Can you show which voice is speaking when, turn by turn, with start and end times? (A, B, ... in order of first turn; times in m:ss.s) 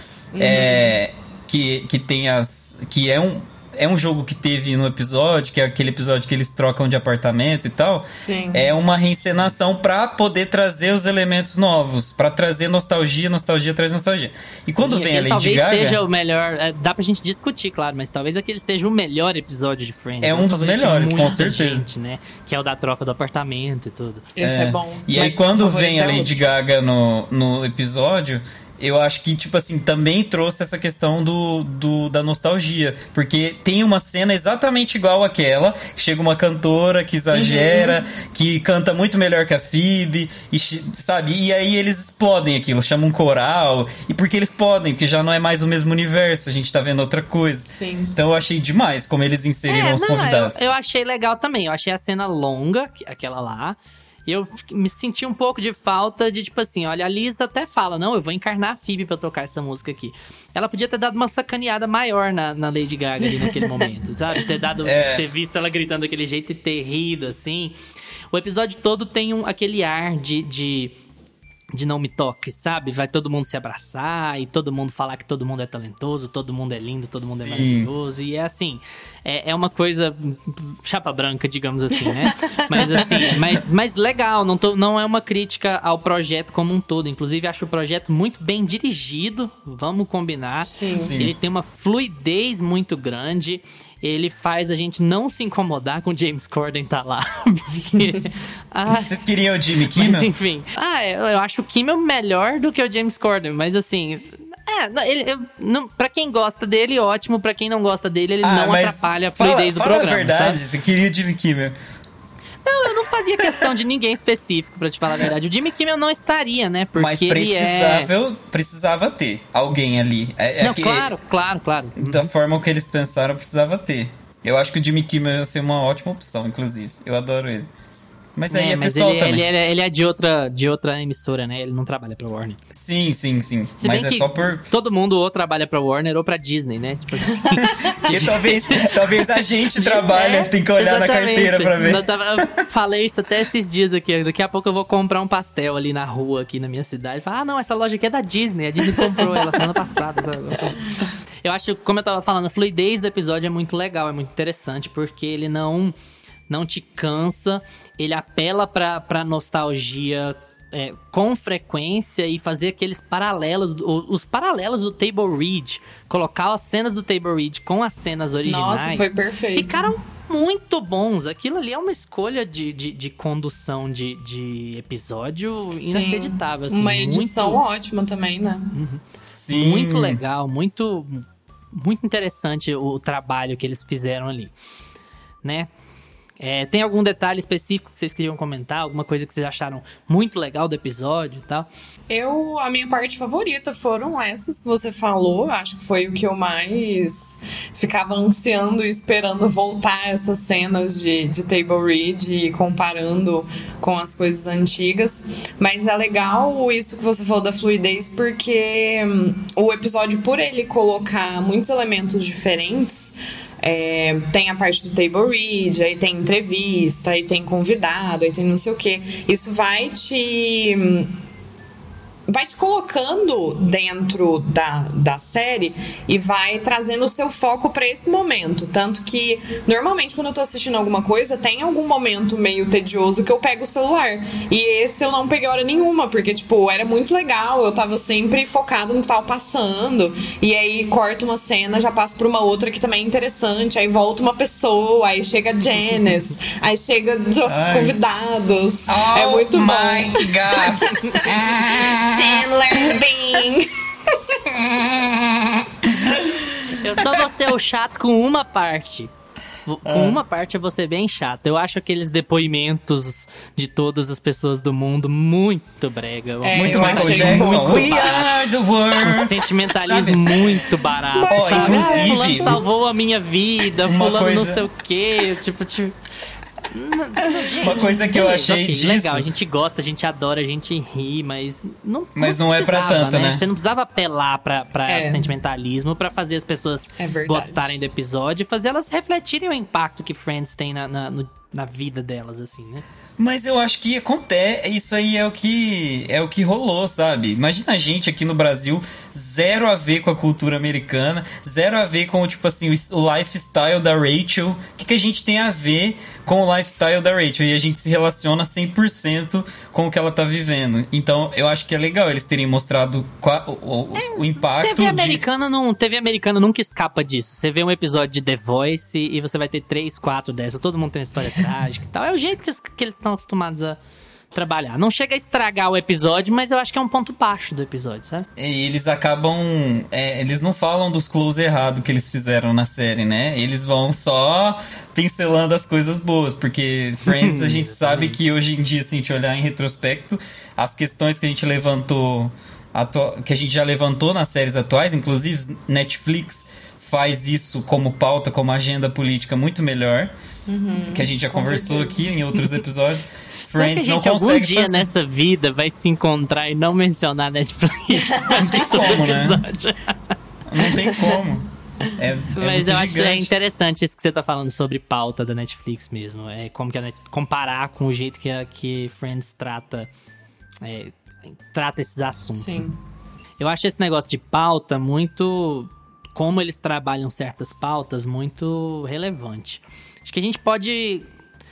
0:00.3-0:01.0 A
0:00.4-0:16.0 B
0:08.1-0:08.7 A
0:14.8-0:24.3 C
0:20.2-0:21.9 B
0:24.4-0:26.5 A
0:24.4-0:50.6 B
0:37.3-0:38.0 A
0:47.7-0:48.2 A
0:49.7-1:07.8 C
1:04.8-1:05.2 B
1:08.3-1:11.0 C
1:11.7-1:39.1 C
1:17.2-1:17.9 B
1:22.3-1:22.8 A
1:23.0-1:23.6 B
1:30.7-1:31.1 A
1:30.9-1:31.3 B
1:39.0-1:40.3 B
1:39.9-1:50.6 C
1:48.4-1:51.8 B
1:52.6-1:58.1 C
1:57.0-2:01.1 B
2:00.6-2:02.3 C
2:02.0-2:07.7 B
2:08.4-2:09.4 B
2:08.5-2:12.6 C
2:12.7-2:14.6 B
2:13.8-2:18.9 C
2:17.4-2:18.2 A
2:18.1-2:22.1 B
2:19.8-2:30.9 C
2:29.2-2:29.8 A
2:31.4-2:36.0 C
2:36.5-2:57.6 C
2:48.4-2:49.9 A
2:55.7-2:58.8 A
2:58.7-3:04.5 C
2:59.3-3:00.2 B
3:05.4-3:05.7 C
3:06.4-3:11.7 C
3:12.1-3:41.2 A
3:42.3-4:14.4 A
4:07.5-4:08.0 B
4:08.9-4:13.0 B
4:14.5-4:16.1 B
4:16.1-4:16.8 A
4:16.8-4:19.1 C
4:19.7-4:28.3 C
4:19.8-4:20.2 B
4:26.4-4:28.3 A
4:26.6-4:30.5 B
4:29.0-4:36.0 C
4:31.1-4:32.6 A
4:31.3-4:32.6 B
4:33.9-4:34.6 B
4:36.7-4:52.8 C
4:37.6-4:39.3 B
4:42.2-4:43.4 B
4:44.9-4:45.3 A
4:47.0-4:47.7 A
4:53.2-5:15.2 B
5:14.0-5:23.8 C
5:24.3-5:28.3 C
5:28.4-5:50.1 B
5:37.0-5:38.2 C
5:50.5-5:52.1 A
5:50.9-5:54.9 B
5:53.4-6:00.1 C
5:58.1-5:58.4 A
5:58.3-5:59.4 B
6:00.5-6:03.3 B
6:02.3-6:09.9 C
6:10.6-6:12.6 C
6:12.4-6:12.8 A
6:13.4-6:21.1 C